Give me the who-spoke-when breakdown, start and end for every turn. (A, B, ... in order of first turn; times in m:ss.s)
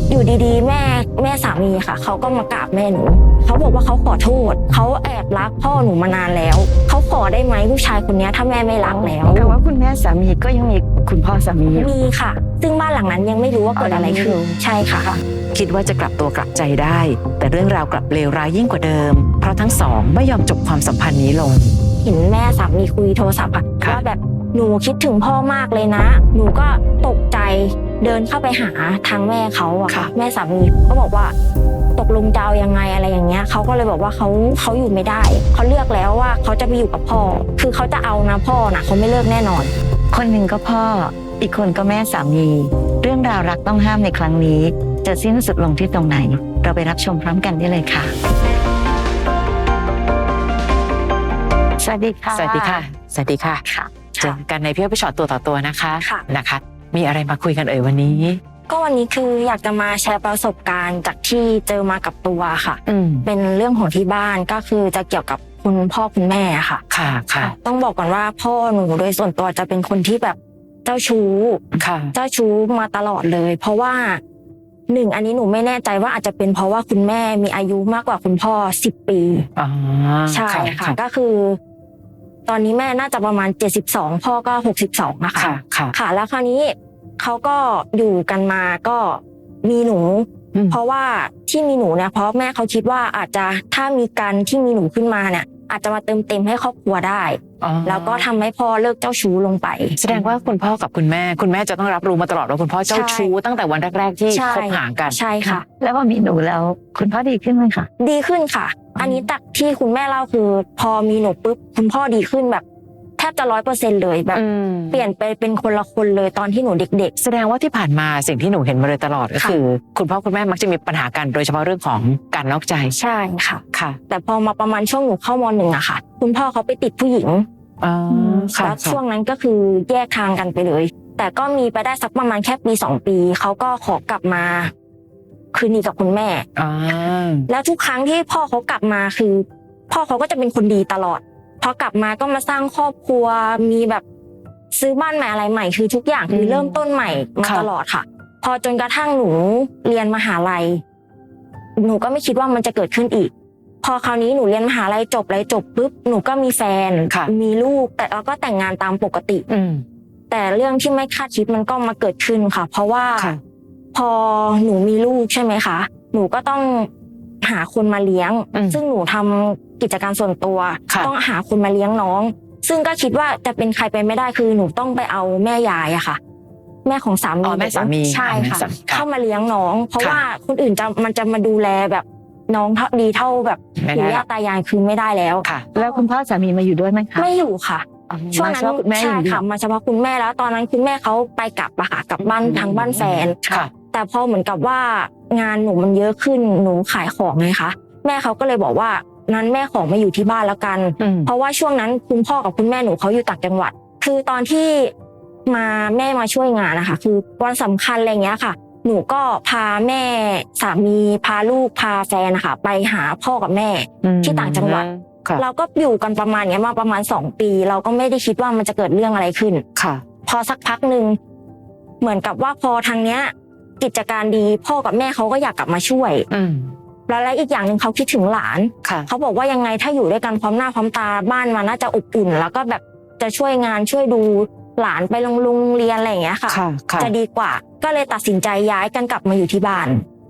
0:00.1-0:09.3 A
0:08.8-0:11.9 B
0:11.8-0:15.1 A
0:13.8-0:15.2 B
0:15.5-0:21.8 C
0:22.0-0:31.3 A
0:32.0-0:39.7 A
0:40.1-0:48.1 B
0:51.8-0:52.8 B
0:52.3-0:53.6 C
0:53.6-0:53.9 B
0:54.2-0:58.4 C
0:58.7-1:06.8 A
1:02.9-1:03.3 C
1:06.9-1:07.5 C
1:07.4-1:14.2 A
1:11.8-1:12.1 C
1:14.9-1:19.5 A
1:19.6-1:21.0 C
1:20.3-1:21.6 A
1:22.5-1:40.2 A
1:25.4-1:26.0 C
1:37.6-1:38.3 C
1:40.0-1:45.6 C
1:42.9-1:43.3 A
1:44.3-1:45.6 A
1:45.8-1:47.9 B
1:48.0-1:52.6 A
1:49.0-1:49.2 C
1:53.2-1:57.1 A
1:54.3-1:55.0 C
1:57.2-2:03.0 C
2:03.0-2:07.5 A
2:03.7-2:04.0 C
2:07.8-2:09.0 C
2:08.1-2:14.7 A
2:15.5-2:16.5 A
2:16.6-2:17.5 C
2:17.5-2:24.0 A
2:24.7-2:30.8 A
2:26.3-2:26.8 C
2:31.8-2:33.3 A
2:33.8-2:39.5 A
2:39.5-2:39.8 C
2:40.3-2:43.3 A
2:43.9-2:46.9 A
2:47.4-2:56.2 A
2:48.5-2:48.8 C
2:56.8-3:06.0 A
2:57.4-2:59.0 C
3:03.8-3:04.2 C
3:05.8-3:07.3 B
3:07.2-3:24.9 A
3:08.1-3:09.4 B
3:12.4-3:13.7 C
3:21.0-3:21.3 C
3:25.5-3:34.9 A
3:34.0-3:35.4 C
3:35.4-3:39.6 A
3:39.8-3:40.0 C
3:40.3-3:41.2 A
3:42.0-3:46.3 A
3:46.3-3:46.8 C
3:47.1-4:00.0 A
3:48.8-3:49.1 C
3:56.5-3:57.1 C